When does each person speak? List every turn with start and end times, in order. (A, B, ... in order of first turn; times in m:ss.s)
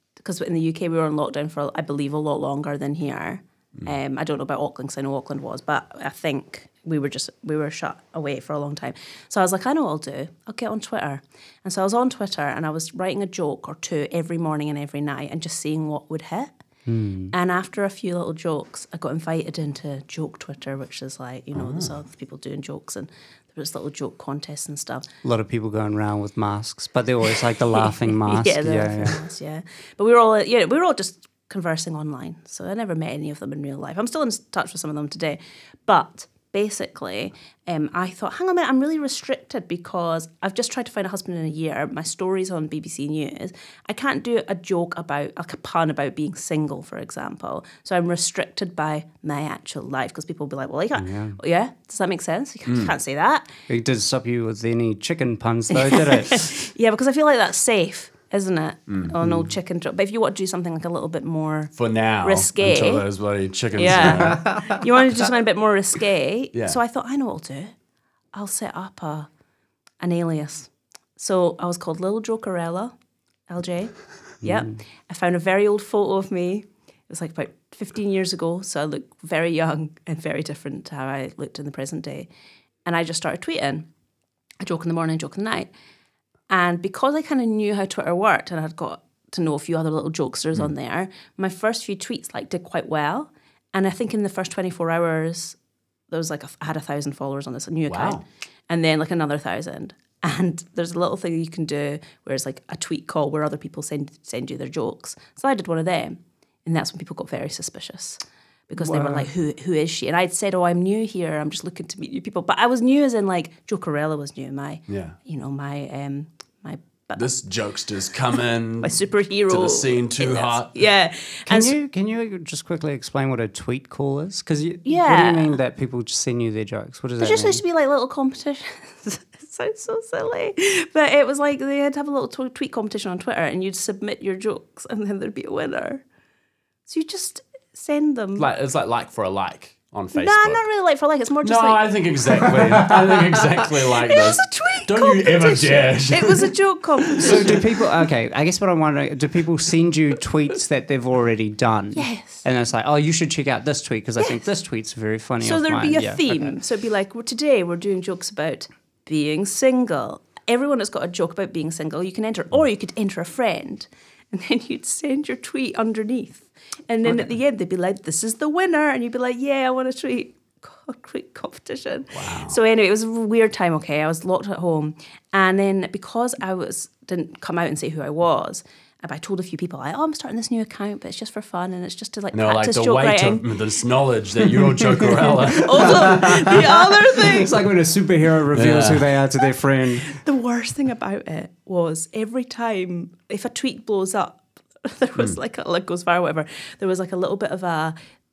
0:00.2-0:16.5 A
0:16.8-0:17.3 B
0:17.3-0:25.0 A
0:21.5-0:21.9 C
0:25.2-0:29.2 B
0:27.8-0:53.5 A
0:51.0-0:51.4 B
0:52.7-0:52.9 C
0:53.7-0:56.5 B
0:55.9-1:03.0 A
0:58.9-0:59.3 C
1:01.8-1:04.5 C
1:03.7-1:07.7 A
1:04.1-1:04.8 B
1:08.3-1:09.3 A
1:10.0-1:12.9 A
1:13.5-1:22.3 A
1:22.8-1:23.9 A
1:24.6-1:25.7 A
1:26.5-1:35.6 A
1:36.1-1:57.3 A
1:37.9-1:38.2 C
1:48.9-1:49.2 C
1:54.9-1:55.2 C
1:57.2-2:00.8 C
1:58.8-2:01.7 A
2:01.5-2:07.6 B
2:04.8-2:05.5 A
2:07.2-2:16.0 A
2:16.9-2:18.5 A
2:18.4-2:20.6 C
2:20.1-2:21.8 A
2:21.4-2:26.5 C
2:22.7-2:23.0 B
2:24.0-2:27.6 A
2:27.1-2:27.6 C
2:27.2-2:36.5 B
2:31.9-2:32.4 A
2:35.4-3:03.5 A
2:52.1-2:52.6 C
3:02.3-3:06.4 C
3:04.6-3:10.1 B
3:05.5-3:07.5 A
3:08.5-3:09.0 C
3:10.1-3:17.9 A